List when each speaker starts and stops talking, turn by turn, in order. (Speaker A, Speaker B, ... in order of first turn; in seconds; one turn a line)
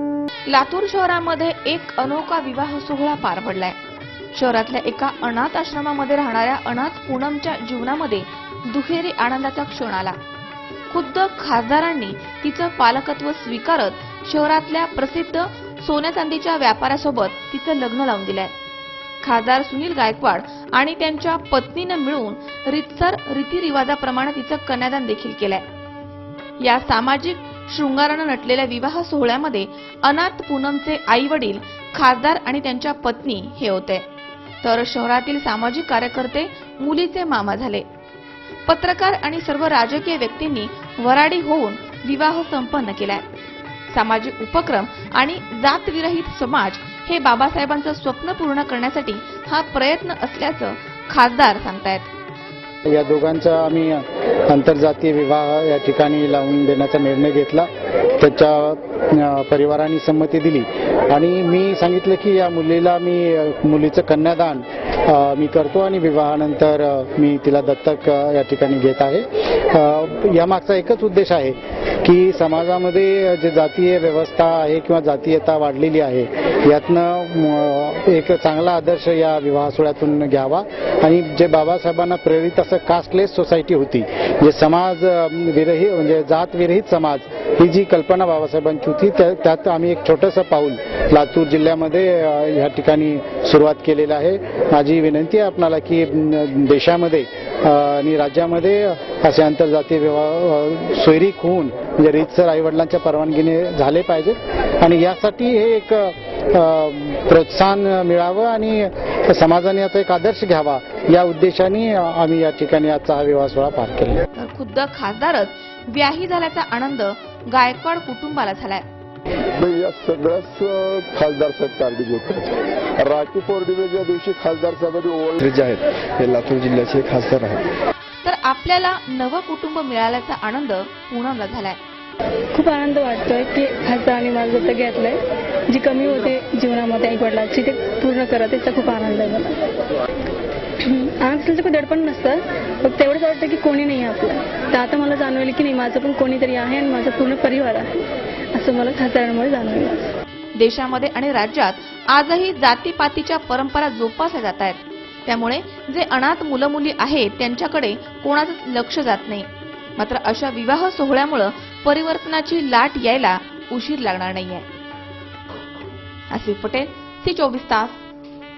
Speaker A: 0.5-3.8
Speaker A: 4.3-10.2
Speaker A: 10.9-18.5
Speaker A: 19.2-25.6
Speaker A: 26.6-34.1
Speaker A: 34.6-37.9
Speaker A: 38.7-43.3
Speaker A: 43.9-52.1
Speaker B: 52.9-114.2
Speaker A: 114.3-118.8
Speaker C: 119.6-122.5
Speaker C: 123.0-125.4
Speaker D: 125.4-127.6
Speaker A: 128.2-131.8
Speaker E: 132.5-135.2
Speaker E: 135.7-139.6
Speaker E: 140.8-147.9
Speaker E: 148.5-150.1
Speaker A: 150.6-164.7
Speaker A: 166.3-168.0